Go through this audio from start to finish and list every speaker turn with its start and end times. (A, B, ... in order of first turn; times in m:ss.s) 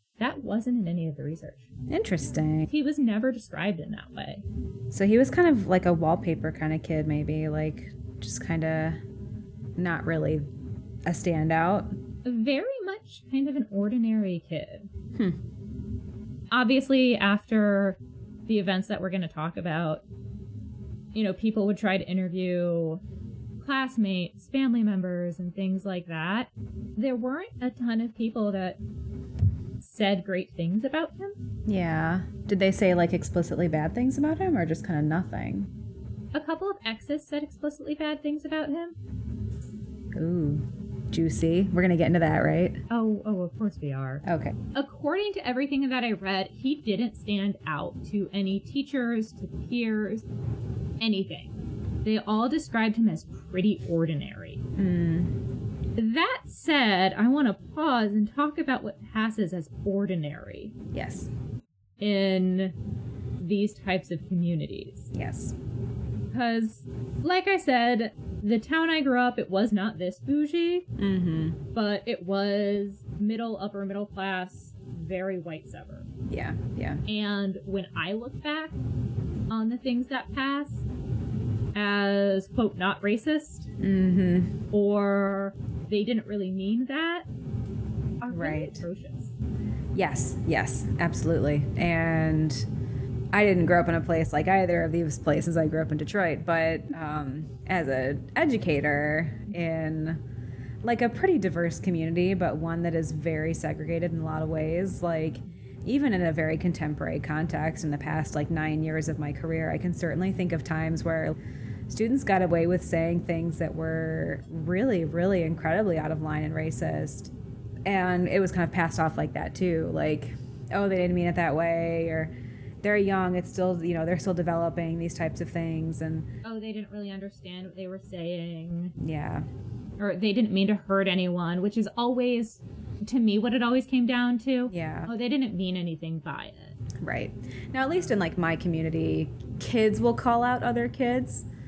0:00.2-0:01.7 A
0:01.9-0:02.7 B
0:02.7-0:04.4 A
0:04.9-0:09.0 B
0:09.8-0:10.5 B
0:11.0-0:11.9 B
0:12.2-0:14.9 A
0:16.5-0:20.0 A
0:21.1-0:23.0 A
0:23.6-0:28.8 A
0:29.8-0:31.4 A
0:31.6-0:35.7 B
0:36.3-0:39.0 A
0:40.1-0:42.8 B
0:42.9-0:50.2 A
0:44.2-0:44.6 B
0:51.0-0:54.6 A
0:54.7-0:55.4 B
0:55.9-1:00.8 A
1:00.9-1:01.3 B
1:02.0-1:02.7 A
1:03.4-1:05.1 A
1:05.1-1:05.6 B
1:06.3-1:10.9 A
1:11.0-1:11.6 B
1:11.7-1:16.1 A
1:16.3-1:17.0 B
1:17.0-1:18.8 A
1:19.5-1:20.8 A
1:21.7-1:23.7 A
1:23.8-1:24.6 B
1:24.7-1:27.3 A
1:28.2-1:29.3 A
1:28.3-1:28.8 B
1:29.9-1:32.7 B
1:33.3-1:40.2 B
1:40.8-1:51.4 B
1:51.9-1:57.3 B
1:57.8-2:06.3 B
2:06.4-2:09.0 A
2:09.0-2:09.4 B
2:10.0-2:16.8 A
2:14.7-2:15.1 B
2:17.0-2:21.5 B